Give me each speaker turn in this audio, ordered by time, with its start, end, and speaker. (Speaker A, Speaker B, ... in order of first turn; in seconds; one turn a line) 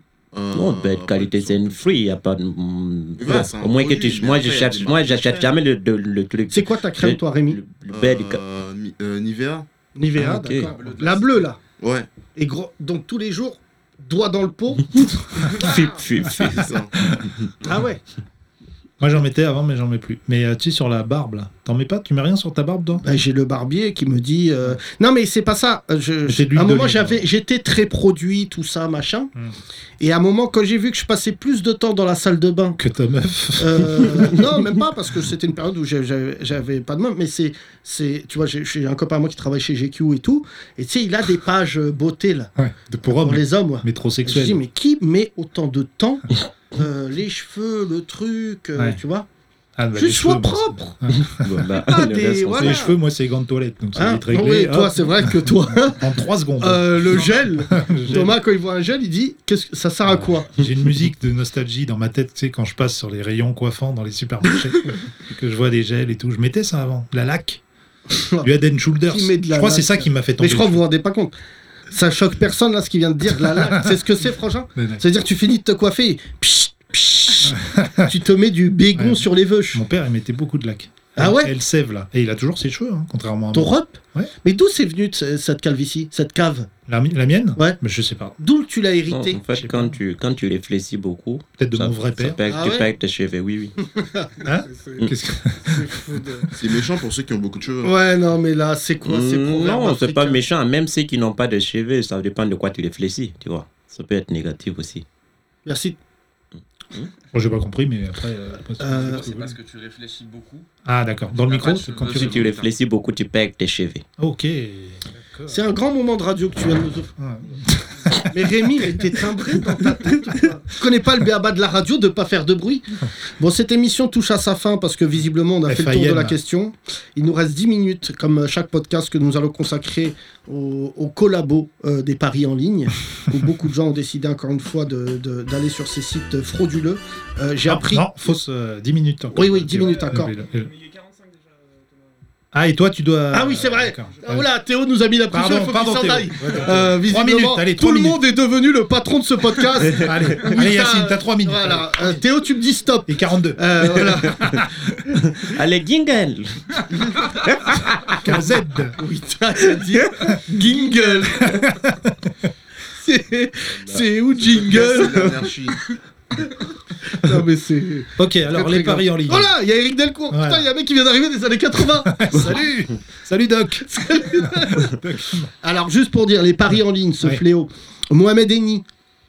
Speaker A: 0.3-1.7
Speaker B: 0.5-8.4
Speaker A: 3.2-5.5
Speaker C: 6.5-7.6
Speaker A: 7.9-9.7
Speaker C: 9.9-11.6
Speaker B: 10.1-10.7
Speaker D: 10.7-11.4
Speaker A: 11.8-12.1
Speaker C: 12.3-16.0
Speaker B: 15.4-16.7
Speaker A: 16.4-16.9
Speaker E: 17.0-17.3
Speaker C: 17.6-18.0
Speaker E: 19.0-23.0
Speaker C: 23.0-29.3
Speaker E: 26.3-27.2
Speaker C: 30.0-32.8
Speaker E: 32.8-34.6
Speaker C: 33.6-42.5
Speaker E: 42.5-44.6
Speaker C: 43.0-49.3
Speaker E: 49.8-51.5
Speaker C: 49.9-51.0
Speaker B: 51.3-52.9
Speaker C: 51.8-52.9
Speaker E: 52.5-58.4
Speaker C: 53.9-56.1
Speaker C: 56.6-60.5
Speaker E: 60.0-67.6
Speaker C: 68.1-68.5
Speaker E: 68.4-70.8
Speaker C: 69.1-71.3
Speaker C: 71.9-79.8
Speaker E: 74.8-75.0
Speaker E: 77.4-78.1
Speaker E: 78.9-84.3
Speaker C: 81.2-81.5
Speaker C: 83.5-86.7
Speaker E: 86.9-88.4
Speaker C: 88.4-89.7
Speaker B: 89.1-93.7
Speaker E: 89.7-90.0
Speaker E: 91.6-92.4
Speaker C: 92.5-92.9
Speaker C: 93.8-96.5
Speaker E: 94.4-96.5
Speaker A: 96.5-97.9
Speaker C: 97.8-100.4
Speaker B: 99.0-105.0
Speaker C: 105.7-106.0
Speaker E: 107.3-109.5
Speaker C: 108.8-109.2
Speaker D: 108.9-110.7
Speaker E: 110.8-112.5
Speaker D: 111.4-112.7
Speaker B: 112.1-114.0
Speaker E: 114.2-115.6
Speaker C: 115.5-117.1
Speaker E: 117.2-119.1
Speaker C: 118.2-138.4
Speaker E: 125.7-126.4
Speaker E: 137.6-140.7
Speaker C: 139.3-140.3
Speaker E: 142.5-144.5
Speaker C: 143.3-154.6
Speaker E: 145.3-148.2
Speaker E: 149.9-152.1
Speaker E: 153.1-154.9
Speaker B: 155.3-156.9
Speaker B: 157.5-158.1
Speaker E: 158.2-158.9
Speaker C: 159.0-161.8
Speaker E: 161.5-161.8
Speaker C: 162.9-165.5
Speaker A: 164.5-165.9
Speaker C: 166.4-172.5
Speaker E: 168.2-169.5
Speaker E: 170.3-170.7
Speaker E: 172.0-175.5
Speaker C: 173.8-178.8